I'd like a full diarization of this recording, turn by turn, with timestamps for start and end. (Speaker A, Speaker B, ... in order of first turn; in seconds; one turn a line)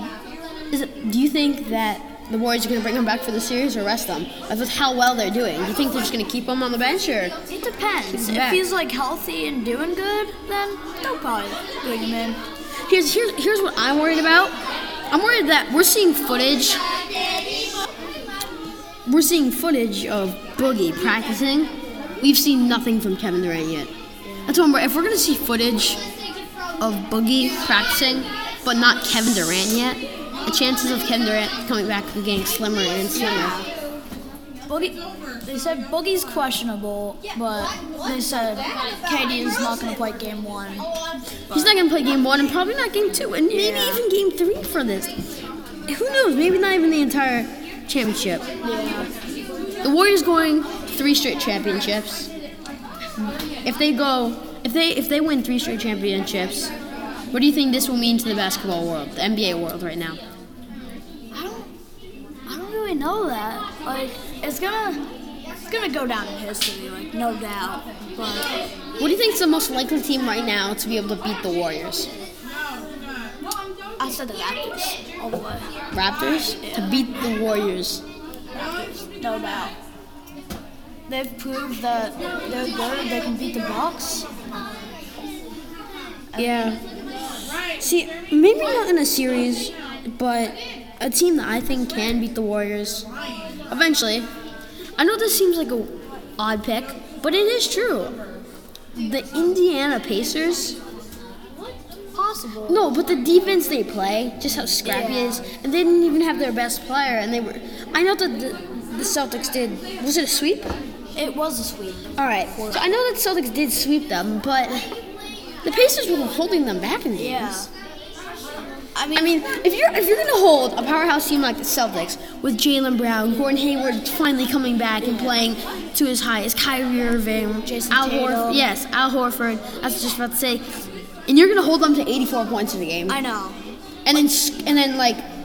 Speaker A: 0.7-7.3
Speaker B: 7.5-12.4
Speaker A: 8.1-8.6
Speaker A: 12.9-14.6
Speaker A: 15.1-16.8
Speaker A: 19.1-21.7
Speaker A: 22.2-23.9
Speaker B: 24.3-24.6
Speaker A: 24.5-26.0
Speaker A: 26.8-33.6
Speaker B: 33.1-33.7
Speaker B: 34.7-40.9
Speaker A: 41.5-45.1
Speaker B: 43.5-44.0
Speaker A: 45.9-48.5
Speaker B: 48.6-49.1
Speaker A: 49.8-52.3
Speaker A: 53.6-56.7
Speaker A: 57.3-60.2
Speaker B: 61.3-61.7
Speaker B: 62.5-65.0
Speaker B: 65.7-68.5
Speaker A: 69.0-72.1
Speaker B: 74.0-75.7
Speaker A: 75.9-78.0
Speaker B: 78.6-79.8
Speaker B: 81.1-84.3
Speaker B: 86.3-86.7
Speaker A: 86.4-86.8
Speaker A: 87.8-93.1
Speaker A: 93.7-94.3
Speaker A: 95.0-98.1
Speaker A: 98.9-100.8
Speaker B: 102.1-102.8
Speaker A: 102.7-110.7
Speaker B: 104.8-105.4
Speaker B: 111.2-112.8
Speaker A: 112.2-114.9
Speaker A: 115.6-117.7
Speaker B: 117.2-117.7
Speaker B: 119.0-119.4
Speaker A: 119.1-130.7
Speaker B: 125.0-125.3
Speaker B: 127.6-128.7
Speaker A: 131.3-133.2
Speaker B: 133.1-133.6
Speaker A: 134.1-135.2